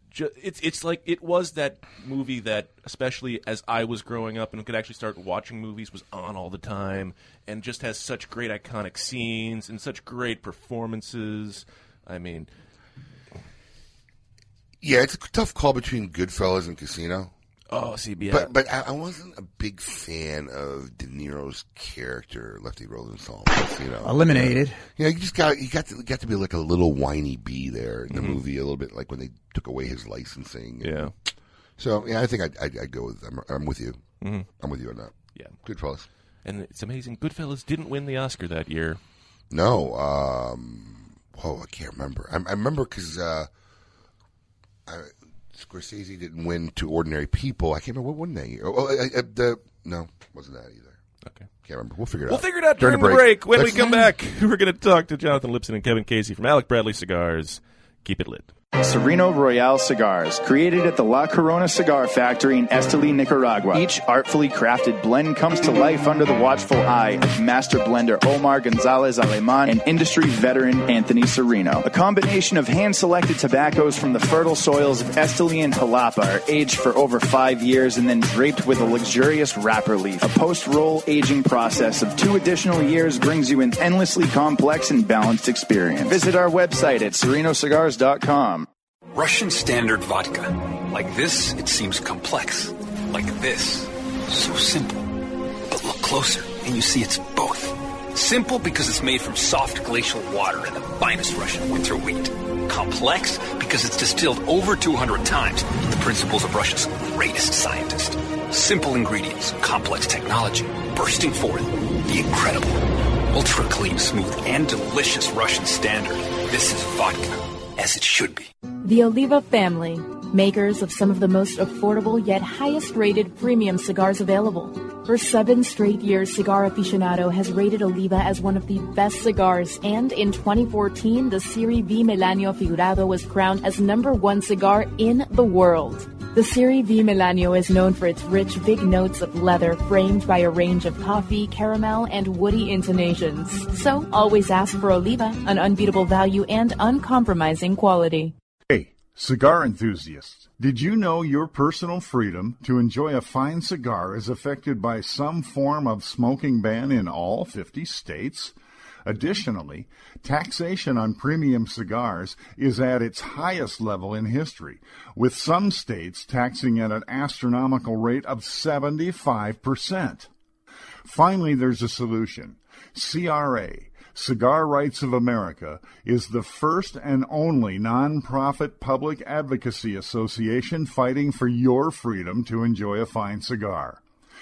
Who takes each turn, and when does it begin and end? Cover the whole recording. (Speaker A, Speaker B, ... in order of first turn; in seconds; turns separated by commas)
Speaker A: 0.1-12.5, Speaker B: 14.8-17.3, Speaker A: 17.7-18.5, Speaker B: 18.3-31.1, Speaker A: 28.1-28.4, Speaker A: 30.8-31.1, Speaker B: 31.8-34.0, Speaker B: 34.6-36.1, Speaker A: 36.5-39.0, Speaker B: 39.5-43.5, Speaker B: 44.9-51.0, Speaker B: 51.6-54.1, Speaker A: 52.3-58.5, Speaker C: 58.8-88.7, Speaker D: 89.1-95.1, Speaker D: 95.7-118.5, Speaker E: 118.8-148.3, Speaker F: 148.7-158.5, Speaker F: 159.1-170.3, Speaker F: 171.1-184.0